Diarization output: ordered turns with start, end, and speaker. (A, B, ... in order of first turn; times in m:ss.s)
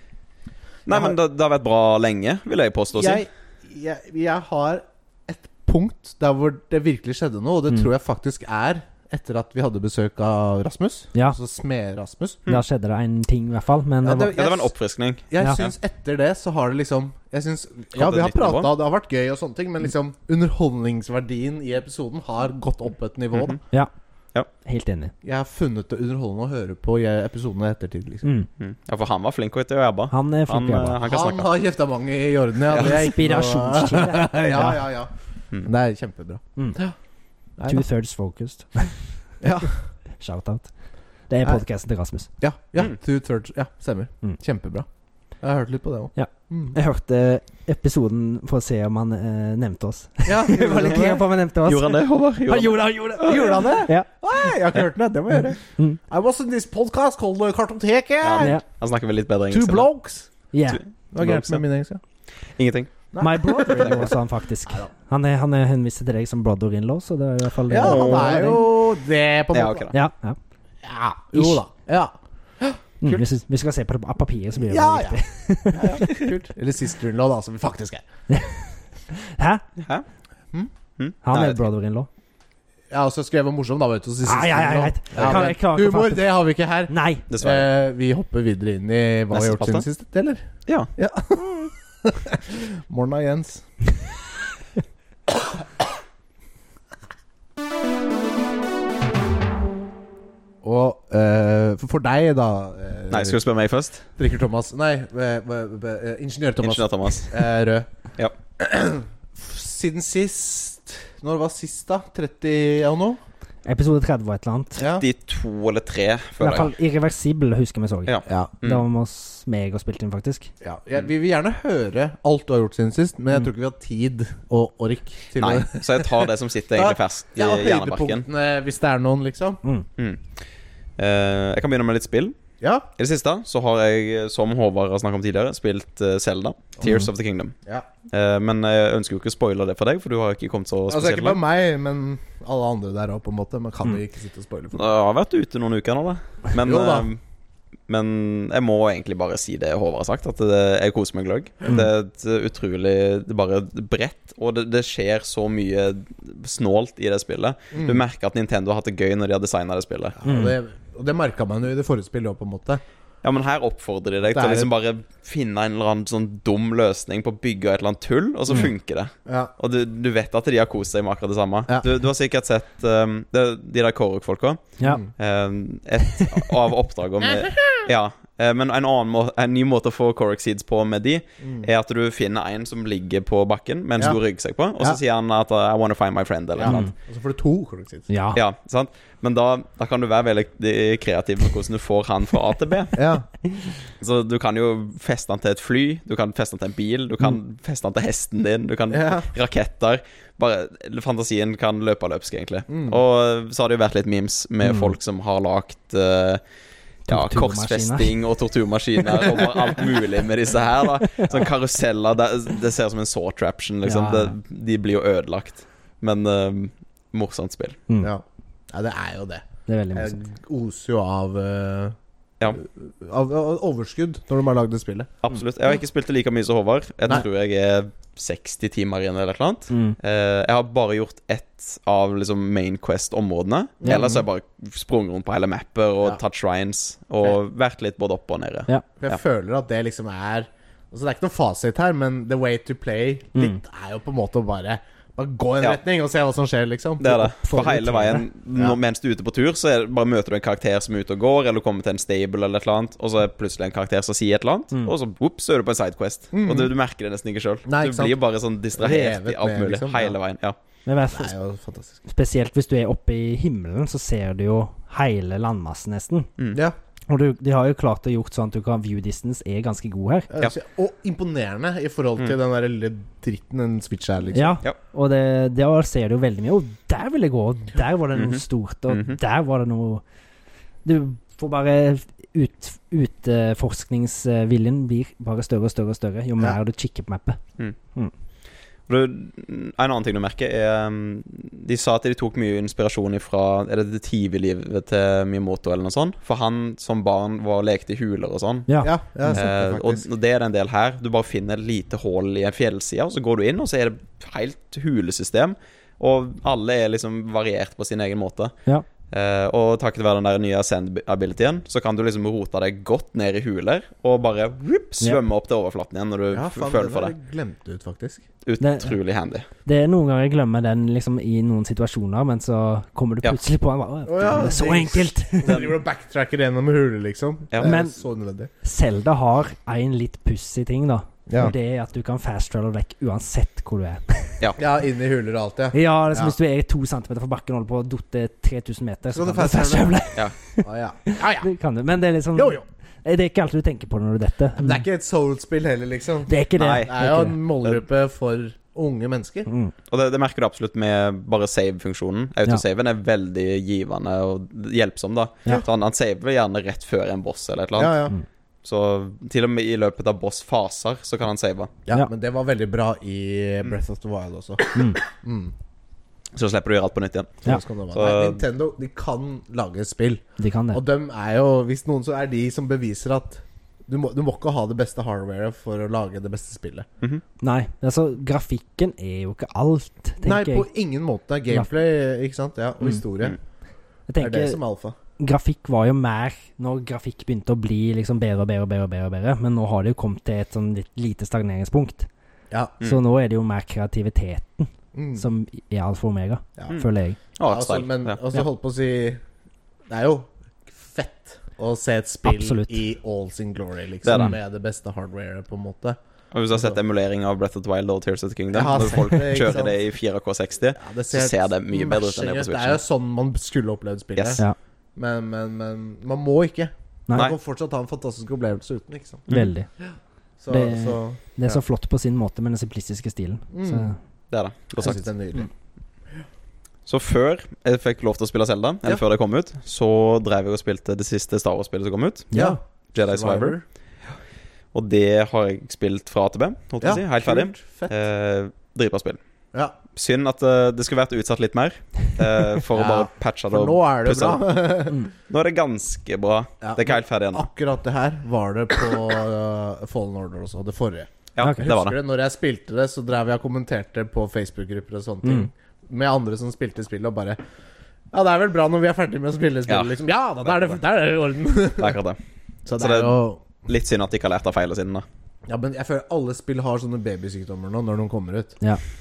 0:00.8-0:03.2 A
0:00.9-0:01.2 B
0:02.9-0:12.4 B
0:12.5-0:14.3 C
0:14.0-0:14.7 B
0:14.3-0:15.7 A
0:15.3-0:23.6 B
0:17.9-0:18.7 A
0:23.3-0:23.6 A
0:24.6-0:25.1 C
0:25.2-0:28.3 B
0:28.2-0:28.5 C
0:28.6-0:31.5 A
0:30.1-0:31.0 C
0:31.0-0:35.1 B
0:32.7-0:33.0 A
0:32.8-0:34.8 C
0:35.6-0:36.9 B
0:37.6-0:37.8 B
0:37.7-0:39.0 C
0:39.4-0:39.8 B
0:40.2-0:40.7 C
0:41.3-0:42.3 C
0:42.4-0:44.8 B
0:45.4-0:46.8 B
0:46.1-0:54.1 C
0:50.2-0:51.2 B
0:51.6-0:53.8 A
0:53.2-0:58.6 B
0:58.2-0:59.9 A
0:58.4-0:58.6 C
0:59.5-1:00.3 B
1:00.5-1:00.8 C
1:00.7-1:01.6 A
1:01.1-1:02.0 B
1:02.6-1:03.0 A
1:03.1-1:04.9 B
1:03.2-1:08.6 C
1:03.7-1:04.1 A
1:07.7-1:09.9 B
1:07.8-1:08.5 A
1:09.5-1:09.9 A
1:09.9-1:10.4 C
1:10.8-1:12.8 B
1:11.3-1:11.6 C
1:13.0-1:16.3 C
1:14.6-1:18.0 B
1:18.3-1:19.6 C
1:19.8-1:20.0 A
1:21.0-1:21.6 A
1:21.2-1:22.1 C
1:22.9-1:30.4 B
1:24.2-1:26.3 C
1:25.1-1:25.4 A
1:26.9-1:27.2 C
1:27.3-1:27.7 A
1:29.3-1:29.8 A
1:31.0-1:33.7 B
1:40.6-1:43.4 B
1:43.1-1:44.0 A
1:44.2-1:47.9 B
1:46.6-1:47.3 A
1:48.6-1:53.2 B
1:53.6-1:54.8 C
1:54.8-1:55.0 B
1:54.9-1:56.7 A
1:56.4-2:00.5 C
1:58.1-1:58.8 A
1:58.2-1:58.5 B
2:00.6-2:09.6 B
2:05.4-2:08.2 A
2:10.0-2:10.3 A
2:11.0-2:12.3 A
2:12.6-2:12.9 B
2:13.0-2:17.5 A
2:16.8-2:17.1 B
2:18.1-2:21.4 A
2:20.9-2:24.9 B
2:24.7-2:27.2 A
2:26.6-2:27.1 B
2:27.9-2:40.2 A
2:37.7-2:38.0 B
2:40.2-2:42.8 B
2:40.2-2:40.5 C
2:43.2-3:06.9 A
2:44.3-2:44.7 B
2:49.2-2:49.5 B
2:54.8-2:55.1 B
2:57.2-2:57.8 B
3:01.4-3:01.7 B
3:06.6-3:08.1 B
3:06.6-3:06.9 C
3:08.1-3:08.4 C
3:08.3-3:13.0 A
3:12.9-3:13.3 B
3:14.0-3:26.4 A
3:18.9-3:19.3 B
3:22.7-3:23.0 B
3:24.6-3:24.9 C
3:27.1-3:28.1 C
3:27.1-3:37.8 A
3:33.8-3:34.4 C
3:38.0-3:42.0 B
3:39.7-3:40.2 C
3:42.5-3:45.1 B
3:45.2-3:59.2 A
3:49.7-3:50.0 C
3:53.8-3:54.2 B
3:59.0-4:07.2 B
4:07.0-4:20.6 A
4:07.1-4:08.2 C
4:16.3-4:16.7 B
4:17.6-4:18.2 B
4:18.7-4:20.2 B
4:20.8-4:21.3 C
4:21.1-4:22.0 B
4:22.1-4:26.3 C
4:27.1-4:30.3 C
4:30.3-4:34.6 B
4:34.3-4:40.0 C
4:38.1-4:39.2 A
4:40.8-4:47.4 C
4:48.9-4:58.7 A
4:58.7-4:59.4 C
4:58.8-5:00.0 B
4:59.2-5:08.5 A
5:09.1-5:17.1 A
5:16.3-5:18.2 B
5:18.4-5:19.5 A
5:18.6-5:18.9 C
5:19.6-5:25.6 C
5:24.1-5:28.5 B
5:25.4-5:25.7 A
5:27.6-5:28.0 C
5:28.6-5:34.4 C
5:31.3-5:31.5 B
5:34.6-5:36.3 B
5:35.7-5:44.8 C
5:39.1-5:40.1 B
5:40.6-5:41.5 B
5:42.3-5:42.6 B
5:44.6-5:49.5 B
5:46.3-5:47.4 C
5:46.6-5:46.9 A
5:49.5-5:49.7 C
5:49.9-5:58.1 A
5:57.8-5:58.2 B
5:58.6-6:01.7 A
6:01.8-6:05.5 B
6:04.7-6:05.0 C
6:06.3-6:08.4 A
6:07.4-6:16.9 B
6:10.4-6:10.8 C
6:17.4-6:20.7 C
6:20.2-6:23.4 B
6:24.1-6:24.6 C
6:24.2-6:25.0 B
6:25.2-6:32.1 C
6:32.8-6:37.2 C
6:34.9-6:35.2 B
6:37.4-6:38.2 A
6:37.4-6:39.2 B
6:39.9-6:46.0 B
6:42.2-6:42.8 C
6:44.0-6:44.4 A
6:46.3-6:52.8 A
6:48.5-6:49.8 B
6:50.8-6:54.4 B
6:54.2-6:54.4 A
6:55.0-6:59.3 B
6:59.3-6:59.7 C
7:00.4-7:01.2 B
7:00.5-7:04.0 C
7:03.5-7:03.9 B
7:04.3-7:05.0 A
7:04.8-7:05.5 B
7:06.8-7:12.4 A
7:12.3-7:12.6 C
7:12.3-7:13.6 B
7:12.9-7:13.6 A
7:14.7-7:19.2 A
7:16.8-7:17.9 B
7:19.9-7:27.4 A
7:22.7-7:25.0 B
7:26.6-7:37.4 B
7:31.3-7:32.0 A
7:31.4-7:31.7 C
7:35.2-7:35.5 C
7:38.1-7:42.0 B
7:39.7-7:39.9 A
7:41.8-7:42.2 A
7:42.6-7:43.5 B
7:42.8-7:45.0 A
7:45.5-7:48.6 B